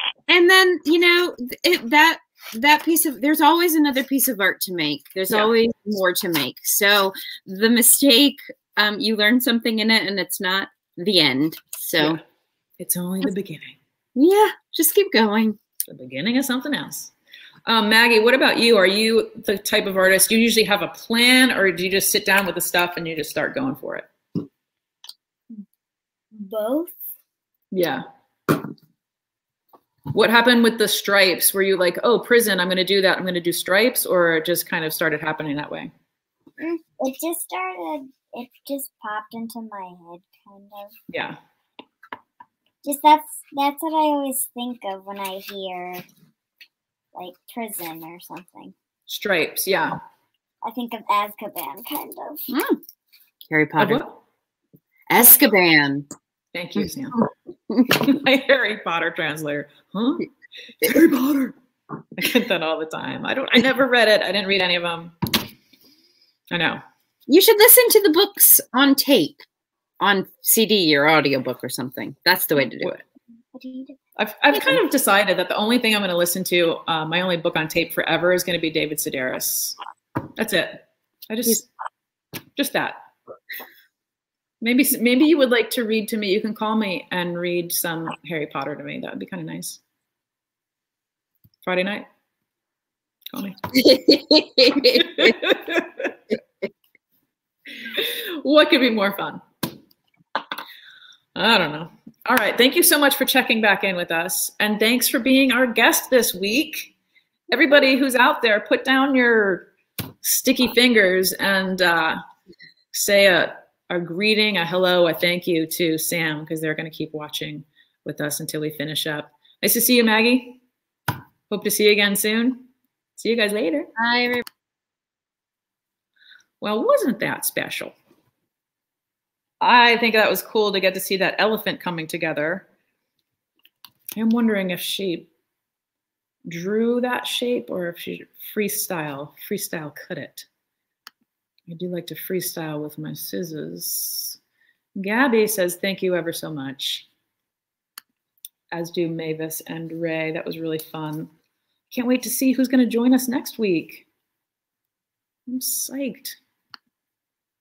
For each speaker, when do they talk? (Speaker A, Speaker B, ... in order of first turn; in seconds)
Speaker A: 0.3-12.2, 14.2-15.6, 52.5-52.8, 53.5-54.0, 55.1-56.1, 67.3-69.5, 70.0-73.0, 93.8-95.5, 124.0-124.4
Speaker B: 12.8-13.8, 15.9-17.1, 17.7-24.1, 27.7-28.0, 30.1-35.9, 41.1-41.4, 49.1-50.0, 53.8-54.2, 56.5-57.2, 57.8-60.3, 60.8-61.6, 62.2-65.1, 66.5-66.8, 74.2-79.8, 80.4-81.7, 82.6-83.0, 84.6-89.8, 91.6-92.1, 93.3-93.8, 94.8-96.2, 97.8-99.4, 101.3-106.9, 107.5-109.7, 110.2-112.2, 112.9-120.6, 121.5-123.9, 126.6-128.0, 129.6-132.7, 134.2-135.3, 136.5-140.5, 141.7-144.4, 145.0-147.1, 148.7-151.3, 151.9-154.1, 155.5-156.4
Speaker C: 26.3-26.9, 36.6-40.9, 42.8-46.0, 47.1-48.8, 50.6-52.4, 73.5-74.0